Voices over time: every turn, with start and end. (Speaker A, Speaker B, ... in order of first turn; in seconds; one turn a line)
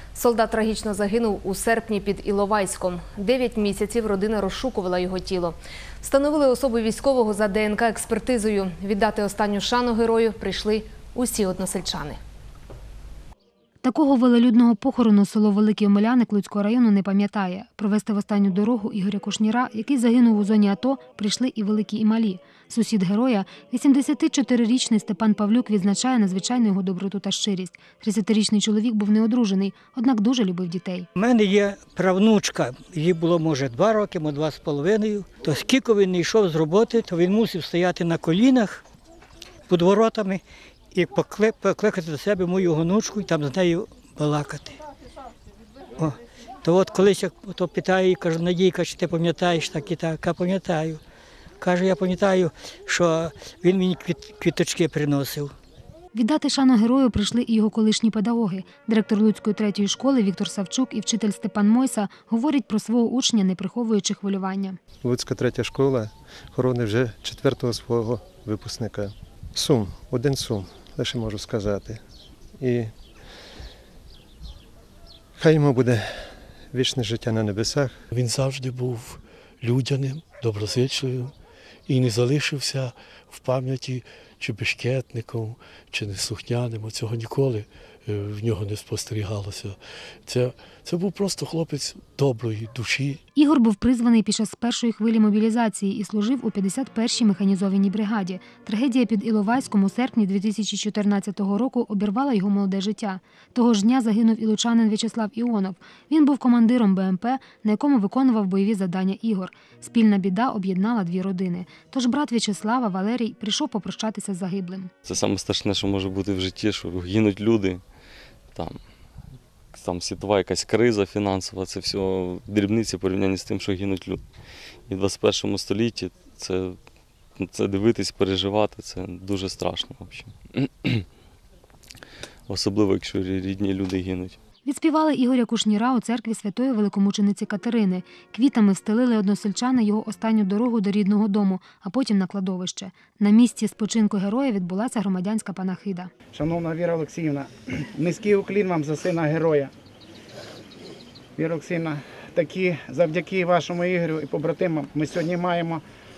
Speaker A: 0.1-12.2
Speaker B: 13.8-31.1
Speaker C: 31.2-38.9
Speaker C: 39.7-40.4
Speaker C: 40.9-44.8
Speaker C: 46.0-51.0
Speaker C: 51.6-55.5
Speaker B: 56.1-64.8
Speaker D: 65.0-72.0
Speaker D: 72.6-72.9
Speaker D: 75.4-77.9
Speaker E: 78.1-81.3
Speaker E: 81.9-93.2
Speaker B: 93.3-114.9
Speaker F: 115.1-117.8
Speaker F: 118.5-118.8
Speaker F: 119.7-124.2
Speaker F: 124.9-126.8
Speaker F: 127.4-131.1
Speaker F: 132.5-134.4
Speaker B: 134.7-146.1
Speaker G: 146.3-149.7
Speaker G: 151.4-155.8